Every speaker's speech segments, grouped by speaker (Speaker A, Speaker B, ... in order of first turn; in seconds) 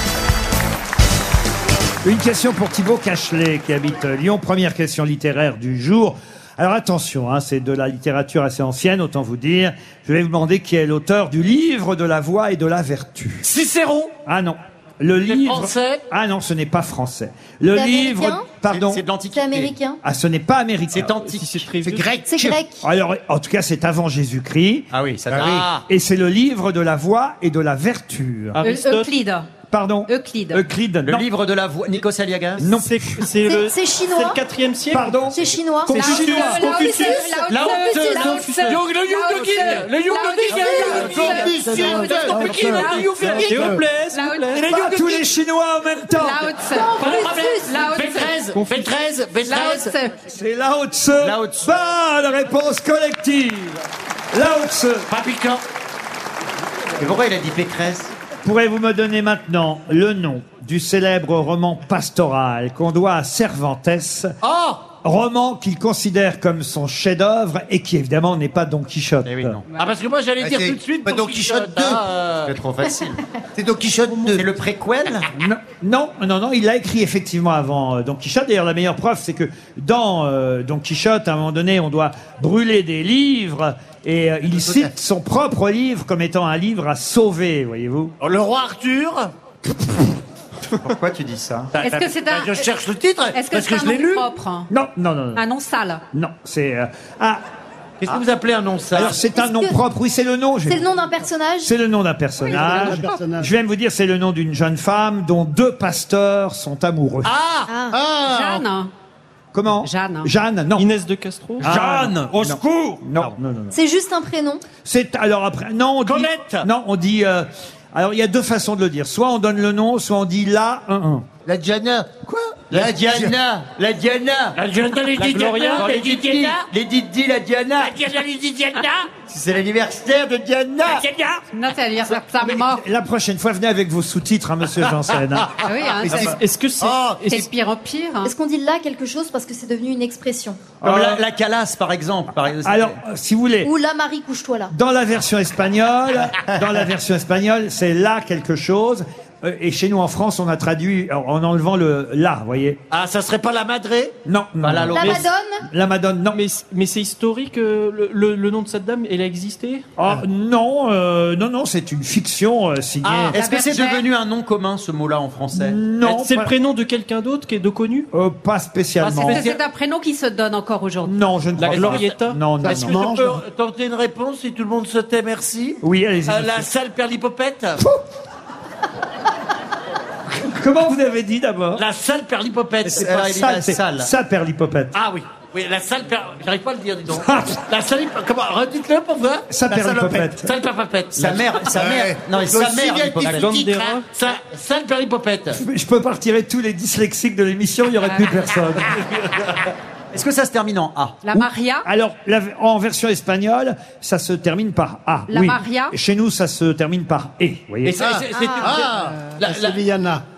Speaker A: 2.0-13.5, 14.3-19.0, 20.0-21.1, 22.8-24.9, 25.9-28.6, 29.7-31.3, 32.6-33.3, 34.9-36.8, 44.6-46.5, 50.3-53.8, 54.3-55.1, 58.4-64.3, 65.0-69.6, 75.3-88.1, 94.7-95.4, 96.1-97.4, 98.9-100.9, 101.6-107.4, 109.5-110.9, 111.6-113.8, 114.8-121.3, 132.3-135.5, 140.8-141.2, 142.6-143.7, 144.7-152.8, 154.2-156.4, 160.0-163.4, 165.6-166.5, 168.1-169.4, 171.0-173.0, 175.8-176.7, 180.4-181.8, 182.9-185.0, 187.1-187.6, 189.5-190.5, 195.5-198.9, 201.3-208.0
Speaker B: 13.4-14.1, 15.3-16.0, 25.4-25.9, 37.5-41.5, 42.0-43.6, 44.6-45.2, 47.0-49.9, 55.1-55.6, 64.4-64.9, 69.8-72.5, 88.2-89.3, 91.7-94.3, 98.0-99.2, 107.2-107.7, 116.1-116.7, 124.5-126.7, 127.8-129.1, 130.9-131.4, 152.9-154.1, 169.0-169.6, 172.7-177.8, 181.8-183.2, 184.9-189.5, 190.3-191.4, 194.1-195.6, 198.9-199.5, 207.8-209.8
Speaker C: 17.7-18.5, 19.3-20.0, 22.3-22.8, 33.5-34.4, 35.3-36.0, 46.7-47.7, 99.3-99.8, 100.7-101.7, 107.7-108.0, 113.7-114.7, 138.2-140.7, 143.6-144.7, 155.0-155.6, 208.3-208.7
Speaker D: 18.7-19.7, 20.9-21.6, 24.9-25.7, 31.1-32.6, 51.2-51.7, 57.0-58.1, 69.2-69.6, 72.5-73.2, 74.3-75.3, 90.8-91.7, 111.6-113.3, 122.7-124.6, 125.8-128.0, 129.3-131.0, 140.8-143.0, 154.6-155.2, 163.3-165.8, 182.9-184.1, 191.2-193.6, 200.1-201.2
Speaker E: 21.2-22.2, 28.6-29.1, 32.6-35.2, 35.9-38.8, 43.2-44.9, 48.5-48.9, 110.8-111.7, 125.2-125.9, 136.1-137.5, 156.3-159.9, 166.0-168.1, 171.6-172.4, 193.2-194.1
Speaker F: 21.8-22.6, 25.3-25.6, 40.9-42.5, 70.4-72.0, 73.6-74.5, 107.9-108.6, 121.5-122.2, 122.7-123.3, 130.2-130.9, 136.1-137.2, 189.7-190.2, 191.7-193.9, 208.0-209.2
Speaker G: 28.6-29.5, 30.1-30.6, 35.9-44.6, 46.2-48.4, 49.4-50.1, 91.8-92.7, 93.3-94.7, 95.4-96.0, 108.2-108.9, 109.8-110.3, 131.5-132.8, 135.6-136.4, 137.2-138.3, 163.3-164.0, 169.2-171.2, 201.2-201.9, 205.3-205.9
Speaker H: 41.8-43.8, 102.5-103.5, 172.6-173.4, 209.4-210.2